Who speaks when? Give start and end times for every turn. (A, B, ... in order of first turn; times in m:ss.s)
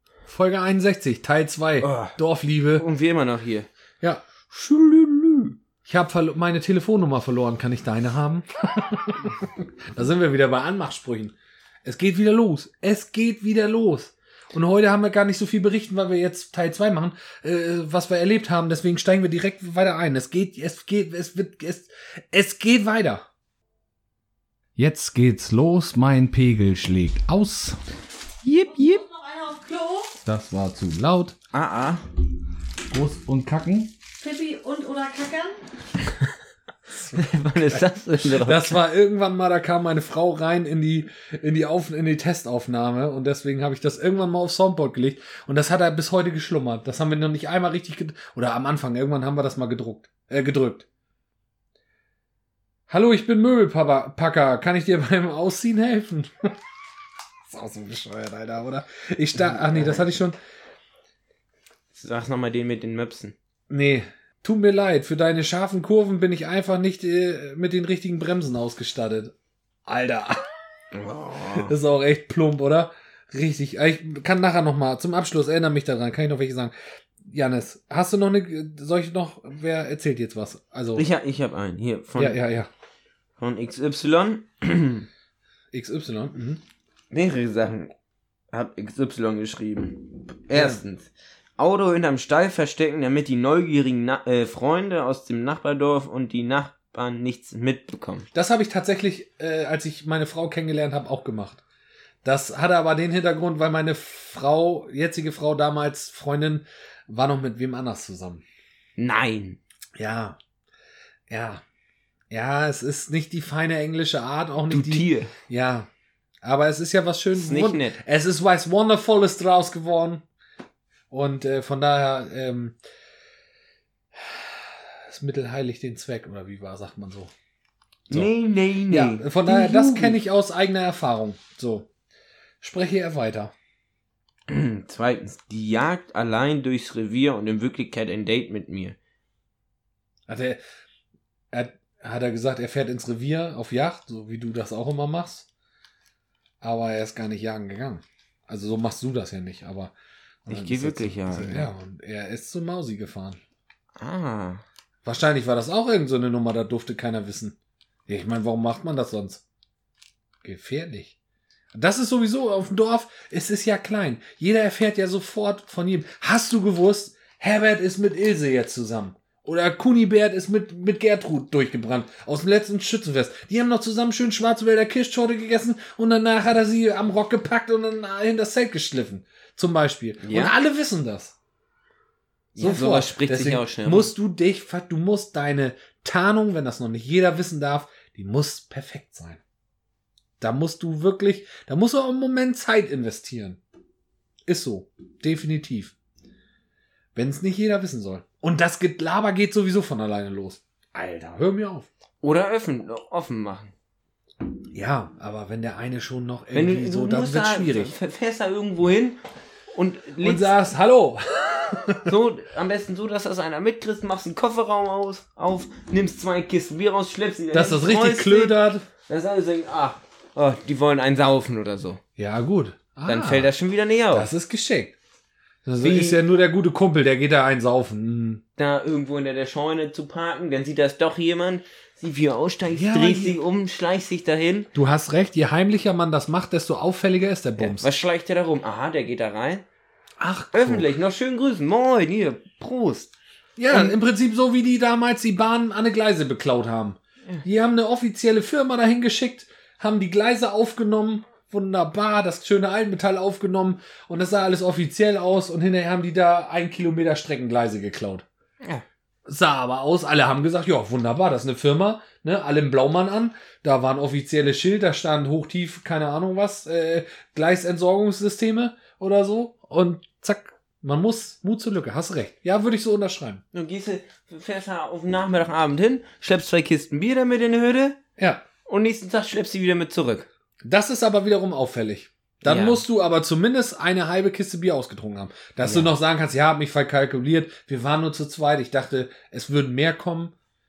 0:00.3-0:02.8 A
0:01.8-0:02.2 B
0:02.7-0:03.7 B
0:04.0-0:23.2 A
0:24.8-0:27.8 A
0:28.4-0:29.0 B
0:28.7-0:30.1 C
0:30.2-0:31.3 A
0:31.5-0:32.0 B
0:32.9-0:33.9 A
0:34.2-0:35.6 C
0:37.1-0:38.8 B
0:38.4-0:50.8 A
0:52.9-0:56.6 A
0:57.5-1:00.4 A
0:59.3-1:00.0 B
1:01.9-1:03.3 B
1:03.7-1:09.3 A
1:09.8-1:10.5 A
1:10.9-1:11.7 B
1:11.6-1:21.0 A
1:21.0-1:22.4 B
1:22.2-1:22.7 A
1:23.4-1:25.1 B
1:25.7-1:26.6 A
1:27.1-1:27.9 B
1:28.5-1:38.3 B
1:30.5-1:30.8 A
1:38.3-1:41.6 A
1:42.2-1:48.4 A
1:49.0-1:49.6 B
1:50.0-1:50.4 A
1:51.3-1:51.6 A
1:52.3-1:55.9 A
1:54.7-1:55.3 B
1:56.4-2:00.2 A
1:57.3-1:58.0 B
2:01.1-2:02.8 A
2:04.2-2:07.3 A
2:08.1-2:10.2 B
2:08.9-2:11.9 A
2:12.6-2:13.5 A
2:14.5-2:19.0 B
2:20.3-2:20.6 A
2:21.5-2:25.5 A
2:26.6-2:29.9 A
2:30.4-2:33.4 A
2:30.5-2:31.7 B
2:34.0-2:34.6 B
2:35.0-2:37.6 A
2:38.1-2:39.4 A
2:40.4-2:41.1 A
2:41.7-3:01.3 A
3:00.2-3:00.5 B
3:02.6-3:04.1 B
3:02.6-3:09.4 A
3:10.4-3:13.6 A
3:14.4-3:15.9 A
3:17.1-3:21.9 A
3:22.2-3:23.7 B
3:24.7-3:27.9 A
3:26.5-3:29.2 B
3:29.7-3:30.5 B
3:30.2-3:32.1 A
3:32.1-3:38.6 B
3:37.5-3:38.8 A
3:39.1-3:42.0 B
3:42.2-3:43.5 A
3:43.0-3:44.3 B
3:44.1-3:44.9 A
3:45.6-3:48.4 A
3:45.8-3:46.2 B
3:48.6-3:54.7 B
3:52.7-3:53.4 A
3:54.7-3:57.9 A
3:57.6-3:59.6 B
4:00.2-4:00.9 A
4:00.5-4:03.1 B
4:03.6-4:18.2 A
4:03.7-4:03.9 B
4:19.3-4:33.4 A
4:33.5-4:38.0 B
4:38.2-4:38.4 A
4:38.6-4:40.3 B
4:40.6-4:50.3 A
4:42.4-4:42.8 B
4:45.6-4:45.9 B